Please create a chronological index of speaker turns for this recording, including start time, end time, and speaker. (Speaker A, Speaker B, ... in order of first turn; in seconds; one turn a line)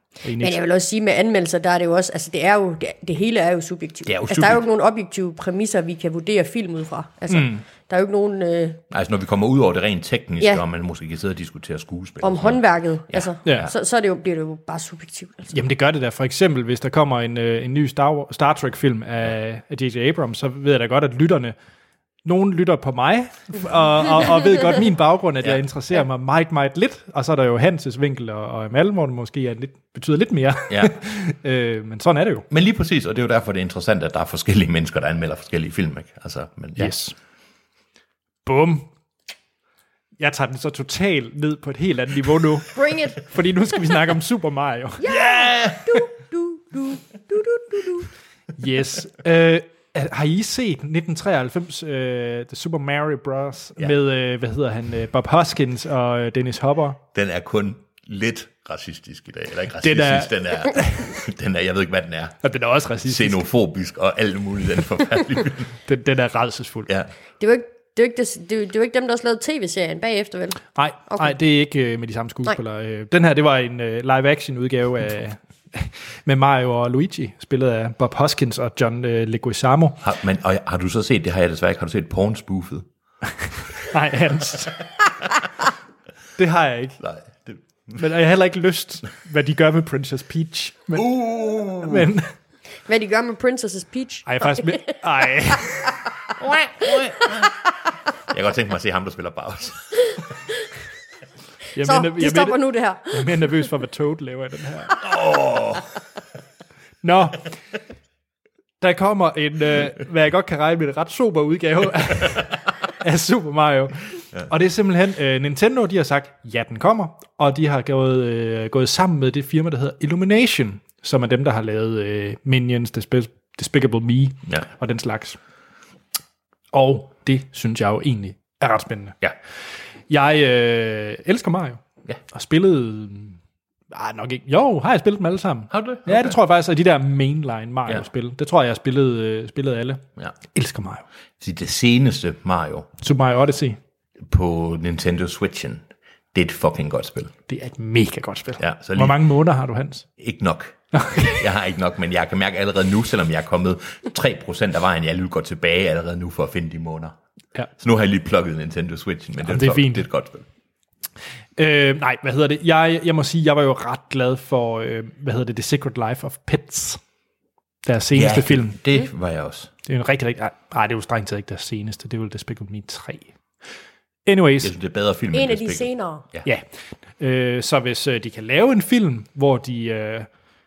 Speaker A: 0.2-0.6
Speaker B: 0.4-8.8
Speaker C: 4.0-4.6
Speaker A: 7.3-7.6
Speaker C: 8.9-13.7
Speaker B: 12.2-15.5
Speaker A: 13.4-13.7
Speaker A: 15.5-21.5
Speaker A: 22.2-32.5
Speaker C: 30.7-30.9
Speaker C: 32.5-37.0
Speaker A: 36.8-37.1
Speaker A: 38.4-38.9
Speaker A: 40.2-45.1
Speaker B: 42.7-43.2
Speaker B: 45.0-48.0
Speaker C: 45.0-45.9
Speaker A: 48.6-57.0
Speaker C: 57.1-62.4
Speaker A: 59.8-61.1
Speaker A: 62.4-63.4
Speaker C: 63.0-65.7
Speaker A: 65.8-66.9
Speaker B: 67.4-71.3
Speaker A: 70.8-80.0
Speaker C: 80.0-82.8
Speaker A: 83.8-84.8
Speaker A: 86.4-87.0
Speaker C: 87.0-88.0
Speaker A: 88.0-91.2
Speaker C: 90.9-92.1
Speaker A: 91.8-92.3
Speaker B: 92.9-94.9
Speaker A: 94.2-96.0
Speaker C: 96.4-97.5
Speaker C: 98.3-100.1
Speaker A: 101.7-105.0
Speaker B: 101.8-103.4
Speaker C: 105.0-105.8
Speaker A: 107.0-107.5
Speaker A: 108.8-125.4
Speaker A: 126.7-129.2
Speaker A: 130.1-131.8
Speaker A: 132.3-133.4
Speaker A: 133.9-140.0
Speaker C: 135.7-136.4
Speaker A: 140.5-141.0
Speaker C: 141.4-142.9
Speaker A: 143.0-143.8
Speaker C: 144.2-147.3
Speaker A: 147.5-150.0
Speaker C: 148.6-149.2
Speaker C: 150.2-157.2
Speaker A: 150.9-151.4
Speaker C: 157.8-160.5
Speaker A: 159.4-160.1
Speaker A: 161.6-167.0
Speaker A: 167.8-168.8
Speaker C: 168.1-169.7
Speaker A: 169.8-173.3
Speaker A: 174.2-174.7
Speaker C: 174.6-176.5
Speaker B: 175.3-176.2
Speaker A: 177.2-180.3